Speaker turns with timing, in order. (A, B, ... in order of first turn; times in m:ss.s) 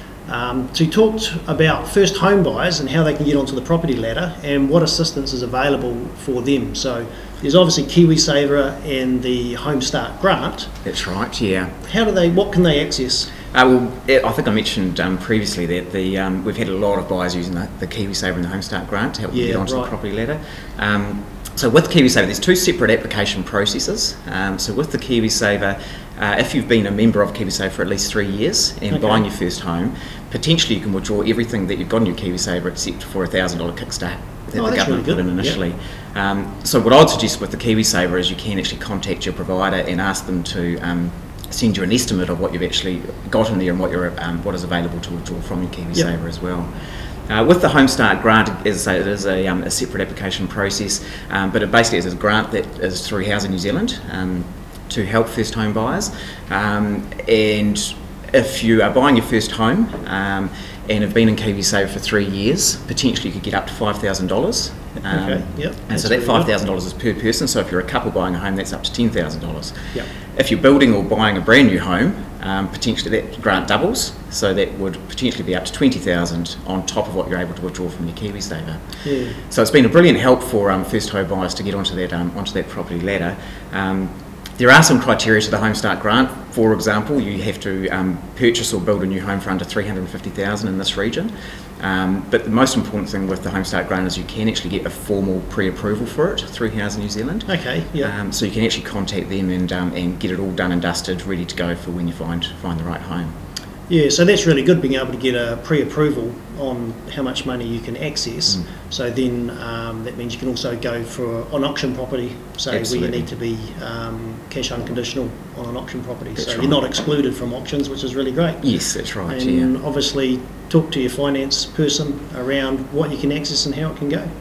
0:00.3-0:10.8 A
0:10.8-0:11.8 B
0:11.8-0:13.3 A
0:13.5-0:46.7 B
0:19.3-0:19.9 A
0:28.9-0:29.2 A
0:34.6-0:35.6 A
0:47.3-1:43.3 B
1:05.0-1:06.5 A
1:19.0-1:19.4 A
1:37.5-1:38.1 A
1:43.9-1:58.7 A
1:52.7-1:53.3 B
1:56.4-1:56.8 B
1:58.6-1:59.7 B
1:59.3-2:04.3 A